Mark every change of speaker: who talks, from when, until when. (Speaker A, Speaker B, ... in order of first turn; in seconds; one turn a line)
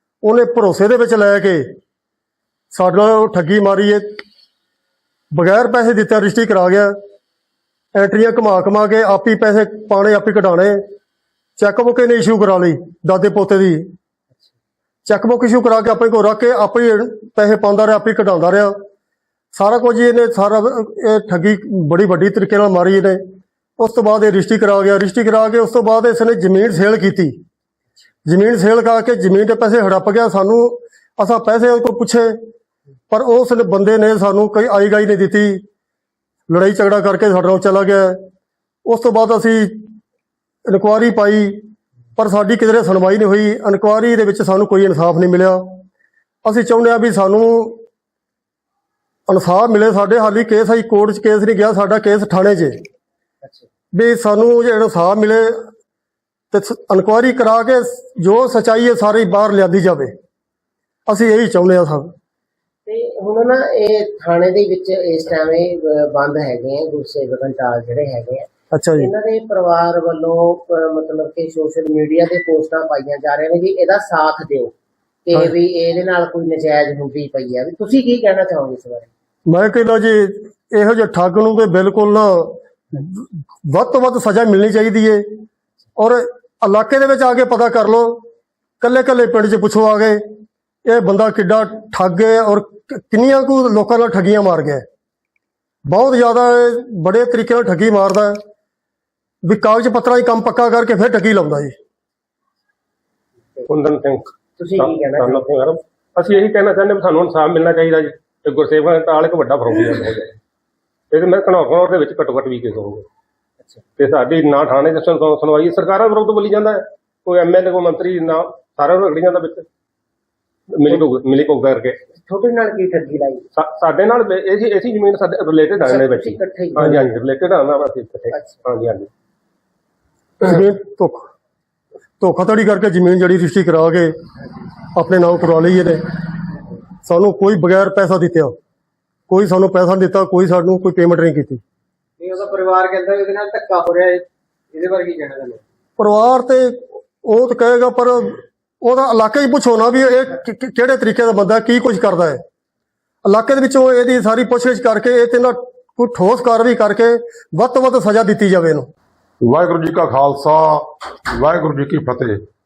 Speaker A: 0.2-1.8
Speaker A: 2.7-4.2
Speaker A: 5.3-7.0
Speaker A: 8.0-10.8
Speaker A: 11.6-13.9
Speaker A: 15.1-18.8
Speaker A: 19.5-23.2
Speaker A: 23.8-27.4
Speaker A: 28.3-32.4
Speaker A: 33.1-35.6
Speaker A: 36.5-38.2
Speaker A: 38.9-39.9
Speaker A: 40.7-41.6
Speaker A: 42.2-45.8
Speaker A: 46.5-47.8
Speaker A: 49.3-52.8
Speaker A: 53.9-55.7
Speaker A: 56.5-60.1
Speaker A: 61.1-62.1
Speaker B: 62.9-74.7
Speaker A: 68.7-69.1
Speaker B: 75.2-79.1
Speaker A: 79.5-85.4
Speaker A: 86.0-88.2
Speaker A: 88.8-90.2
Speaker A: 90.9-94.8
Speaker A: 95.9-98.4
Speaker A: 99.4-101.8
Speaker C: 103.7-110.3
Speaker B: 104.6-105.4
Speaker C: 111.1-113.1
Speaker C: 114.0-119.7
Speaker C: 120.7-122.0
Speaker B: 122.2-123.5
Speaker C: 123.5-129.1
Speaker B: 125.8-127.0
Speaker B: 128.3-128.6
Speaker A: 130.4-131.3
Speaker A: 132.2-134.1
Speaker A: 134.9-136.0
Speaker A: 137.0-138.6
Speaker A: 139.3-141.6
Speaker D: 142.2-145.6
Speaker A: 146.0-152.4
Speaker A: 153.2-158.9
Speaker E: 159.4-162.4